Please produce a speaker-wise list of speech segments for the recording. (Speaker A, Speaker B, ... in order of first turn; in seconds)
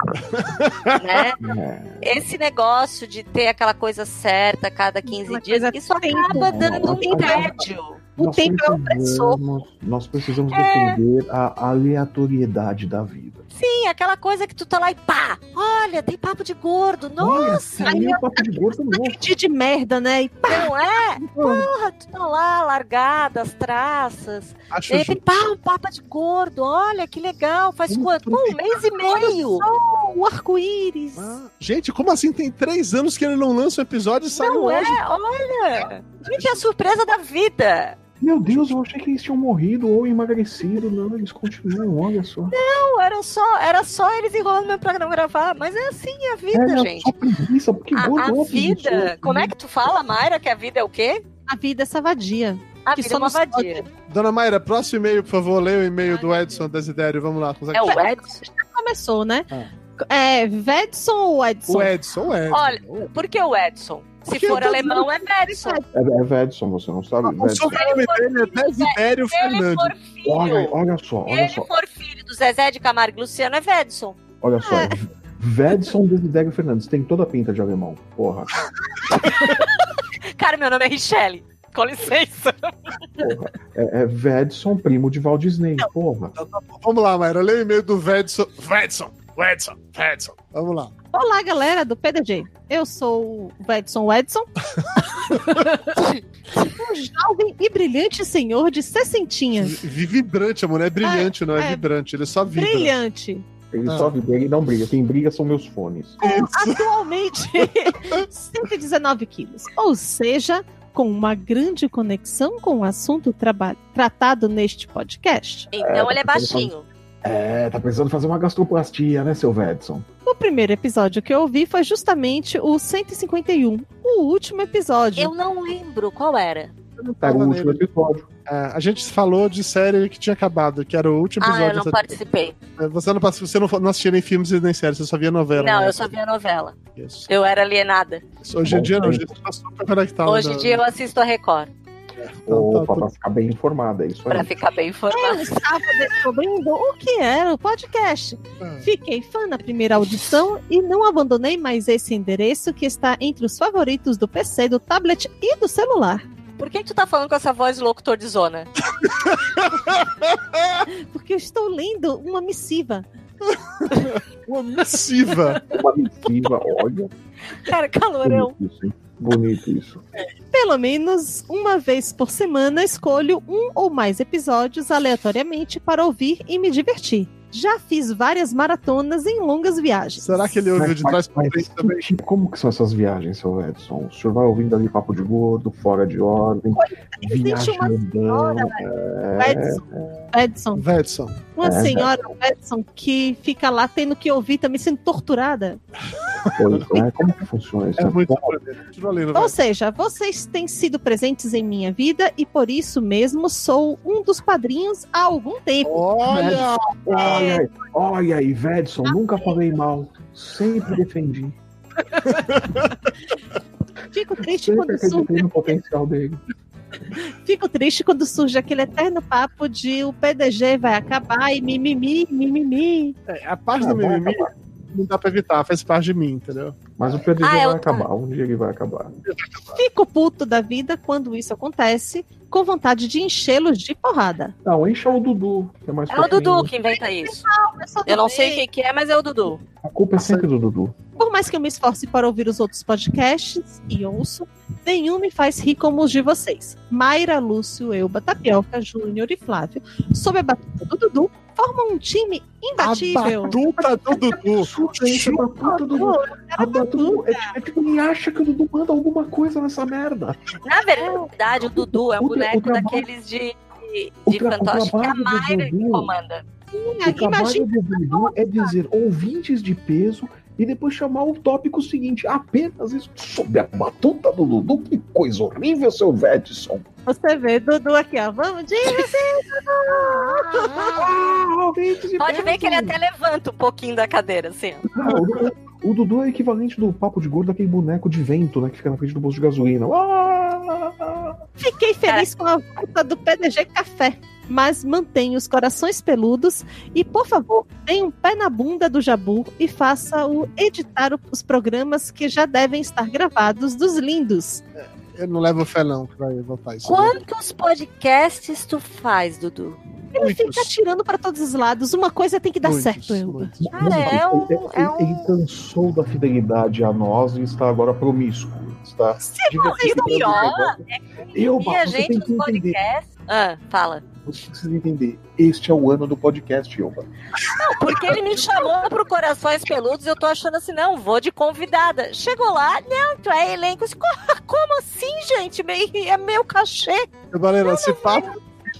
Speaker A: 0.3-1.0, 24.7-25.2, 27.9-28.8, 31.2-35.0, 54.1-58.0, 61.7-63.1, 64.3-65.0, 67.2-69.9, 86.4-90.9, 95.3-95.6, 99.6-102.9, 106.2-106.8, 127.0-127.8, 128.5-132.1, 132.8-136.1, 136.9-137.3, 138.4-140.8, 142.2-143.1, 148.6-148.9, 159.0-160.8, 163.5-165.6, 180.2-182.1, 190.8-191.4, 196.4-196.9, 198.0-199.5, 205.8-207.5, 212.2-212.9, 223.3-226.8, 229.3-229.8, 240.2-240.5, 252.8-255.8, 304.8-307.2, 310.1-310.7, 312.6-314.0, 337.3-338.3
Speaker B: 0.9-1.4, 2.0-8.0, 10.5-11.0, 13.5-18.1, 20.5-29.6, 34.3-38.0, 42.5-47.1, 47.9-51.2, 52.9-53.8, 57.7-58.4, 62.5-65.8, 67.7-70.7, 71.3-74.2, 79.2-79.8, 80.4-82.7, 115.7-116.8, 125.2-126.7, 131.4-132.6, 135.6-136.8, 137.3-138.2, 140.2-141.7, 144.3-145.7, 156.6-158.7, 167.6-168.5, 227.4-228.1, 236.1-237.4, 238.1-239.6, 260.6-266.4, 282.2-284.8, 306.8-309.8, 313.7-315.3, 319.4-324.0, 327.5-337.1, 337.6-338.2
Speaker C: 1.4-2.2, 6.3-7.6, 8.2-13.4, 17.2-19.2, 38.2-42.5, 46.5-49.5, 65.9-67.8, 70.2-71.7, 74.4-78.5, 83.2-86.3, 103.7-106.2, 115.8-116.7, 117.2-120.0, 127.2-128.3, 138.6-139.3, 142.5-144.5, 165.6-167.1, 168.2-170.0, 180.7-190.1, 191.6-192.1, 196.6-198.5, 206.3-211.6, 214.5-216.4, 223.8-224.5, 227.0-229.1, 234.6-236.7, 239.8-240.9, 253.6-260.4, 261.7-263.1, 264.2-266.1, 267.0-276.8, 280.8-283.0, 284.9-291.4, 313.6-320.8, 321.3-322.8, 324.2-327.1
Speaker D: 5.1-7.5, 8.2-9.4, 17.8-21.7, 29.1-31.4, 51.5-53.9, 56.1-56.6, 58.5-59.5, 60.0-61.9, 65.5-65.8, 74.6-75.0, 91.1-94.5, 96.5-99.8, 101.0-101.8, 102.5-103.4, 106.2-115.7, 120.2-125.3, 145.1-156.2, 161.1-163.1, 170.5-180.5, 186.7-188.8, 189.4-189.8, 190.3-190.8, 191.6-195.8, 199.3-206.6, 207.1-207.6, 209.0-209.6, 214.1-215.7, 217.4-223.2, 229.8-234.5, 237.2-238.6, 241.2-253.6, 255.9-257.5, 261.0-261.3, 266.7-268.7, 277.1-281.0, 291.6-304.6, 310.1-313.5, 319.5-320.4